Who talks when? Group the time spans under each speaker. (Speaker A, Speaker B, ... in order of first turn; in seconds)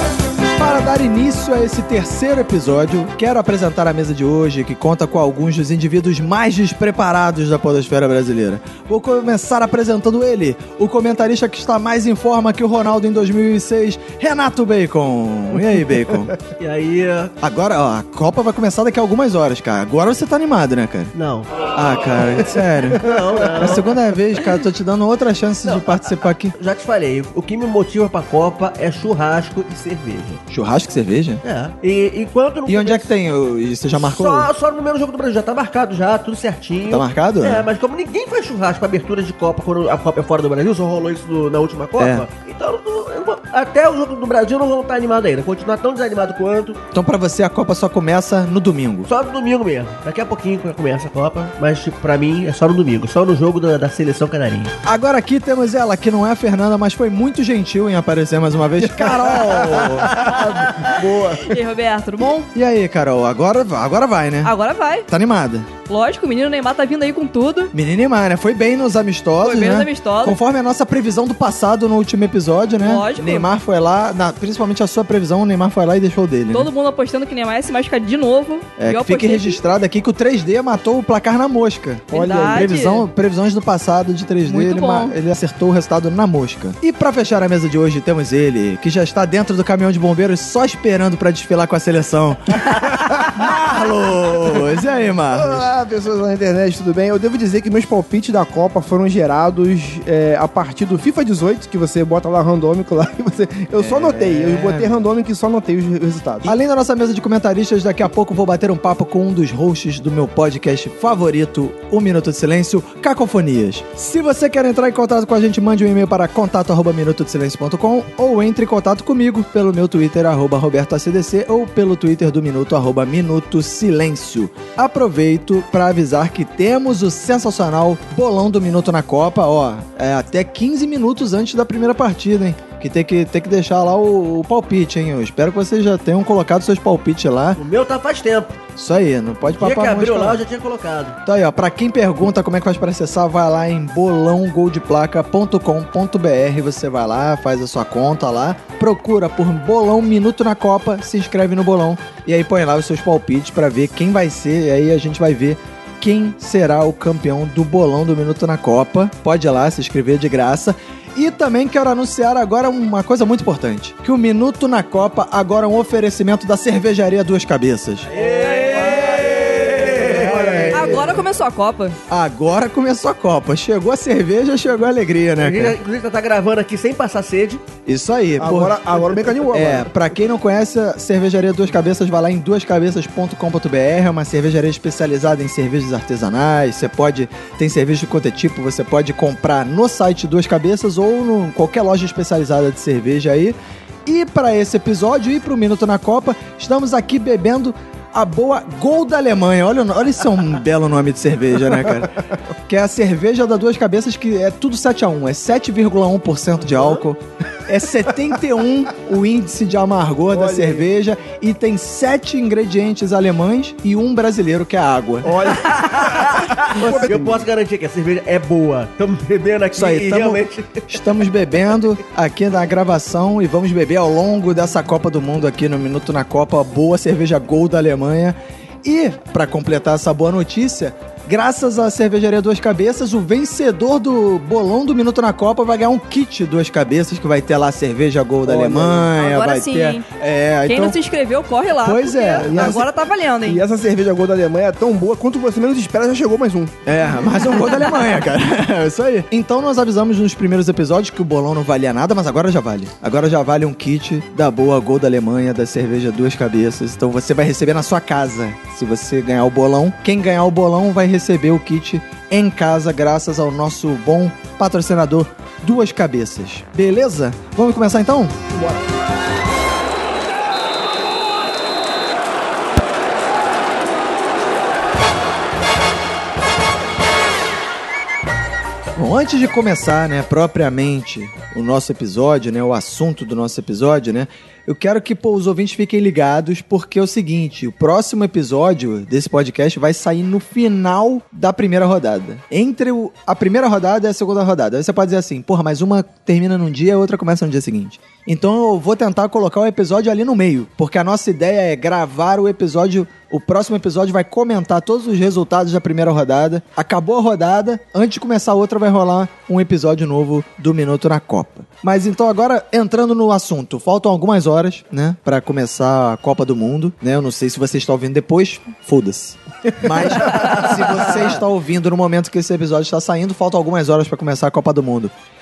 Speaker A: 0.6-16.3, 17.4-21.1, 21.7-26.5, 30.5-31.4, 32.7-34.5, 36.8-37.7, 42.0-42.2, 46.9-49.1, 54.8-60.2, 62.2-64.5, 65.1-65.7, 67.7-76.7, 78.8-95.7, 103.8-105.0, 106.4-137.6, 138.8-140.4, 141.2-171.2, 172.1-175.8, 177.8-178.8, 179.5-202.1, 202.7-215.5, 216.7-217.4, 219.7-241.0, 241.7-242.8, 246.8-268.4, 278.9-325.1
Speaker B: 16.6-17.3, 21.1-21.6, 23.0-24.1, 25.6-30.4, 31.4-33.1, 33.9-46.8, 49.1-54.7, 59.6-60.9, 137.6-138.6, 139.5-141.2, 168.1-170.7, 175.4-177.6, 206.7-207.0, 215.9-220.9, 320.1-321.4
Speaker C: 58.9-61.5, 82.1-82.7, 95.3-106.5, 168.8-171.2, 178.4-179.9, 210.3-210.9, 215.2-217.1, 238.4-239.1, 242.3-242.9, 243.4-246.7, 268.5-268.8
Speaker D: 61.4-62.5, 64.4-65.1, 65.9-67.7, 69.4-70.4, 72.8-73.5, 76.5-79.6, 82.1-83.0, 84.4-85.1, 168.4-168.8, 170.7-172.0, 239.2-240.0, 240.6-243.6, 247.5-248.1